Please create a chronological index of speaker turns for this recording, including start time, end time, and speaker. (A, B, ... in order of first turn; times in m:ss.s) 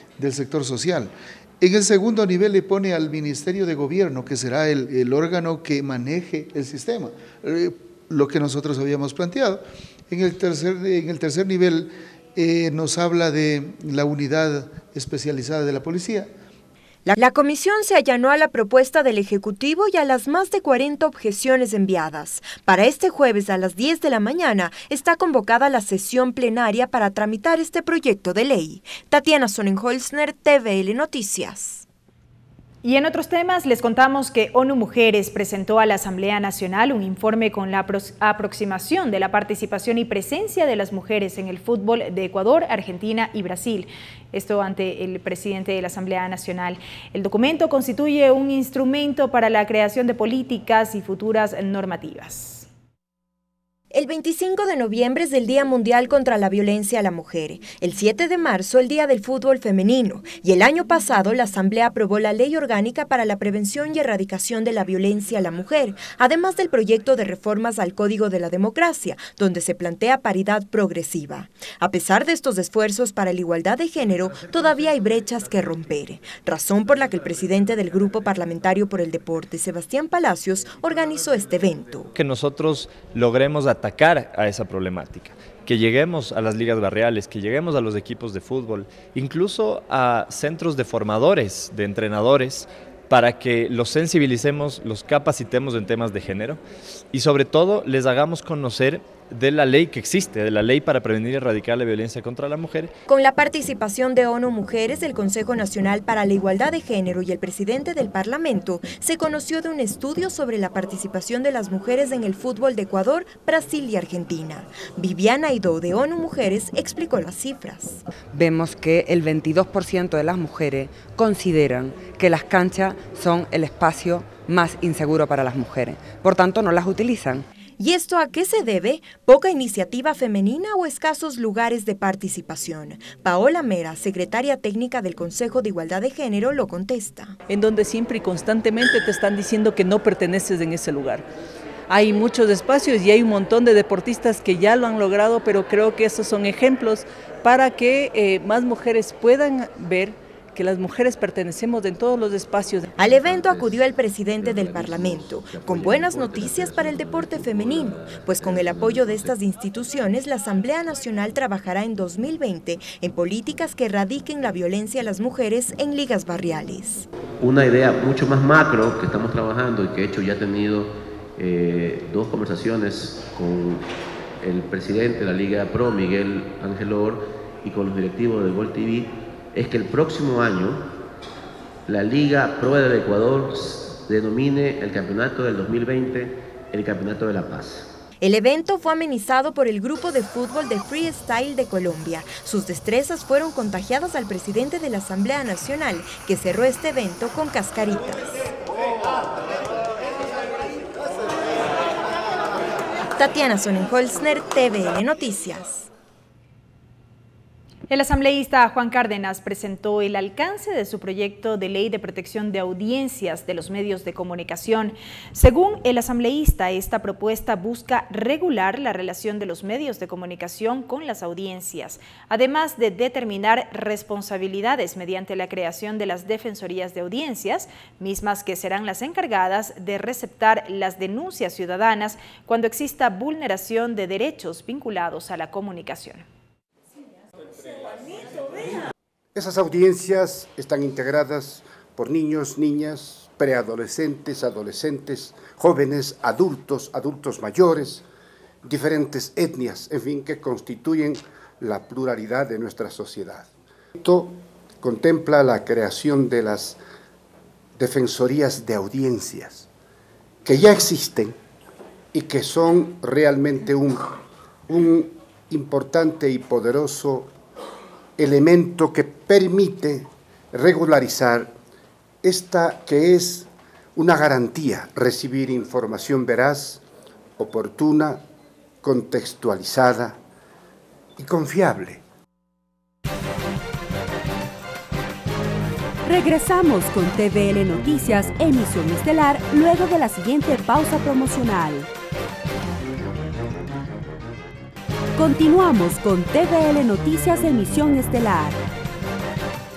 0:00.2-0:16.3 A
0:17.0-0:31.9 B
0:32.8-0:52.7 C
0:53.9-1:22.1 B
1:22.2-1:36.6 D
1:37.1-1:42.9 D
1:43.1-1:58.1 B
1:58.3-2:07.4 E
2:07.8-2:17.4 B
2:17.5-2:21.3 F
2:21.9-2:32.8 F
2:33.0-2:47.1 B
2:33.0-2:39.3 G
2:47.4-3:00.9 G
3:01.9-3:07.9 G
3:08.2-3:18.5 B
3:23.2-3:25.9 B
3:27.9-3:56.2 C
3:59.4-4:08.0 H
4:08.6-4:16.8 H
4:17.8-4:19.7 H
4:20.4-4:21.4 H
4:22.1-4:27.3 H
4:28.2-4:31.5 H
4:32.2-4:36.8 H
4:37.4-4:38.2 H
4:38.8-4:40.2 H
4:41.2-4:42.0 H
4:46.0-4:51.9 I
4:55.2-4:58.6 I